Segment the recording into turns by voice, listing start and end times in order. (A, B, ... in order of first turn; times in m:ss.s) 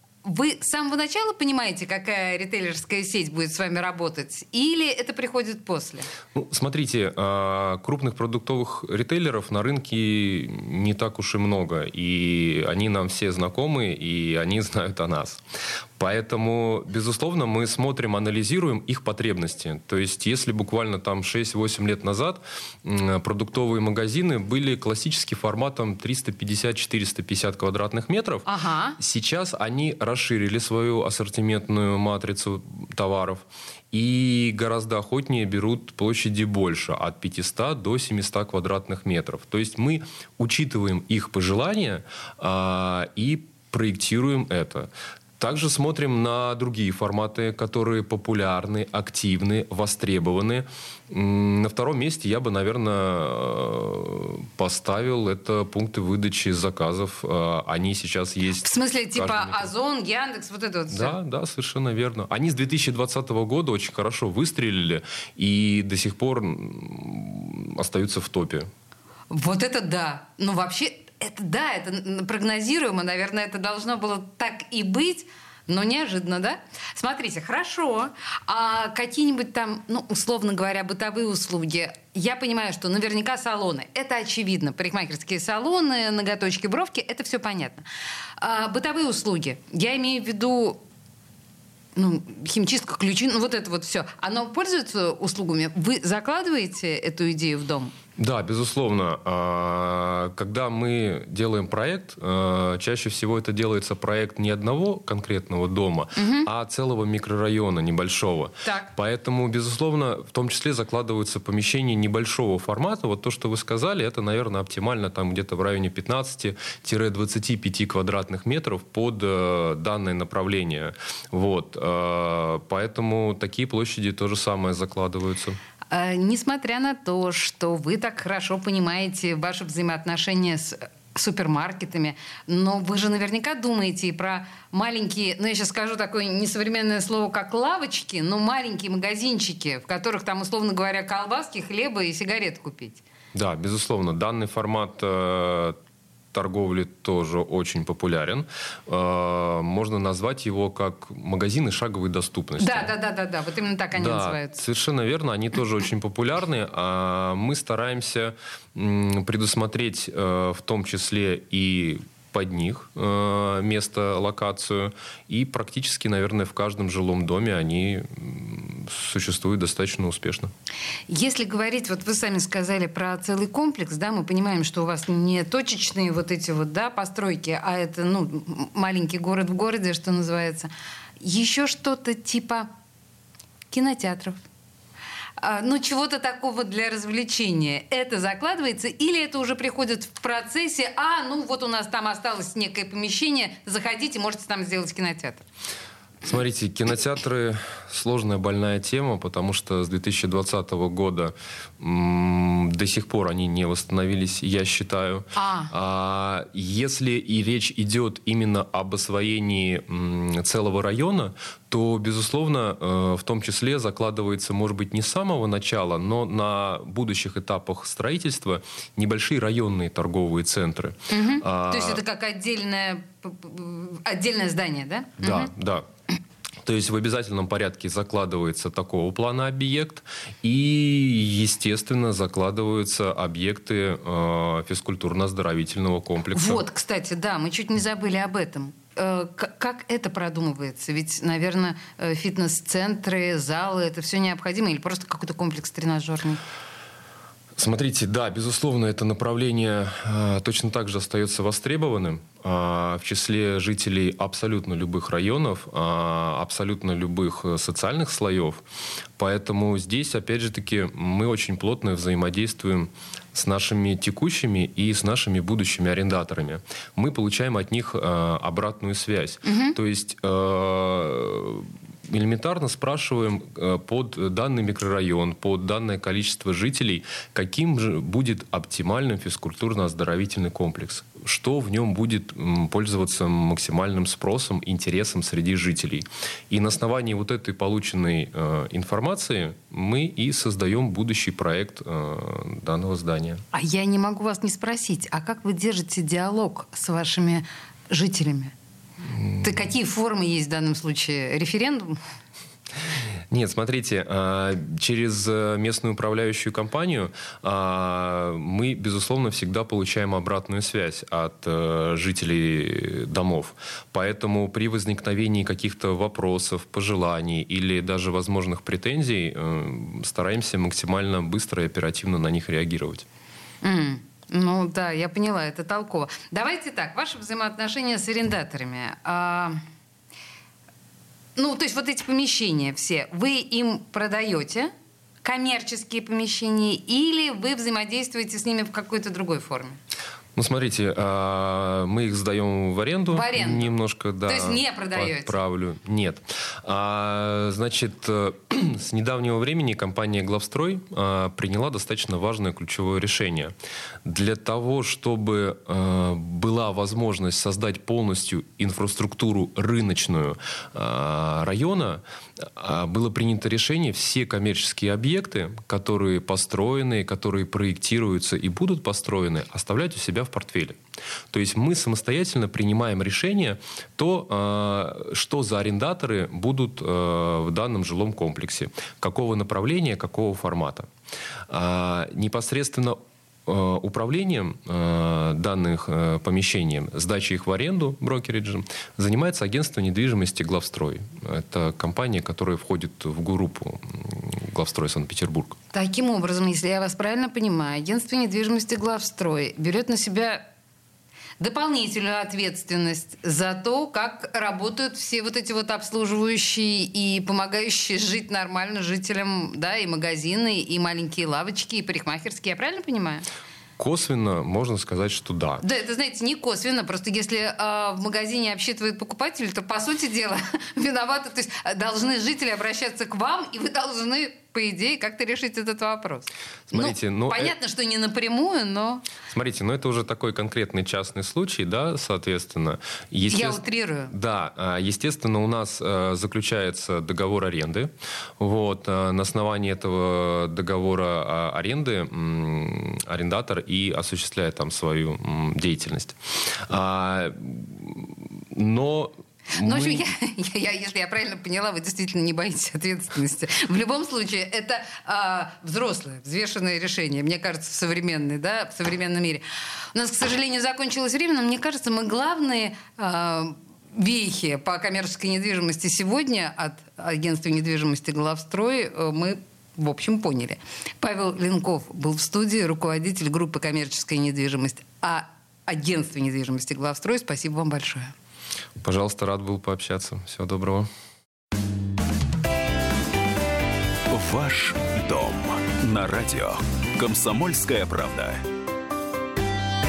0:00.2-0:06.1 A
0:06.4-0:15.4 B
0:16.0-0:28.5 B
0:28.4-0:29.0 A
0:29.0-0:59.7 B
0:58.6-1:01.2 A
1:00.9-1:08.7 B
1:09.3-1:27.8 A
1:28.4-1:30.8 A
1:32.0-1:38.0 A
1:38.2-2:05.6 B
1:46.2-1:46.5 A
1:48.6-1:48.9 A
2:05.9-2:23.0 A
2:23.3-2:25.8 B
2:26.3-2:32.9 B
2:32.6-2:34.6 A
2:33.9-2:50.5 B
2:51.1-3:02.7 A
3:03.7-3:04.4 A
3:05.4-3:15.4 A
3:16.2-3:42.0 B
3:25.4-3:25.7 A
3:41.1-3:45.5 A
3:45.2-3:45.8 B
3:46.6-3:56.6 B
3:56.3-4:06.4 A
4:07.6-4:18.6 B
4:19.2-4:53.4 B
4:29.4-4:29.8 A
4:53.5-4:58.5 A
4:59.1-4:59.5 B
4:59.4-5:02.0 A
5:03.3-5:23.0 B
5:23.6-5:29.6 A
5:31.4-5:34.7 A
5:35.2-5:39.8 A
5:40.4-5:53.5 B
5:43.1-5:43.8 A
5:44.3-5:45.4 A
5:54.0-6:10.8 B
6:11.3-6:20.9 B
6:21.5-6:35.6 B
6:35.7-6:40.4 A
6:41.4-6:53.3 A
6:53.8-6:55.6 B
6:55.6-7:09.0 A
7:06.7-7:07.5 B
7:09.3-7:26.2 B
7:13.3-7:14.1 A
7:26.7-7:30.1 B
7:29.6-7:58.1 A
7:58.8-8:00.9 B
8:04.1-8:08.4 C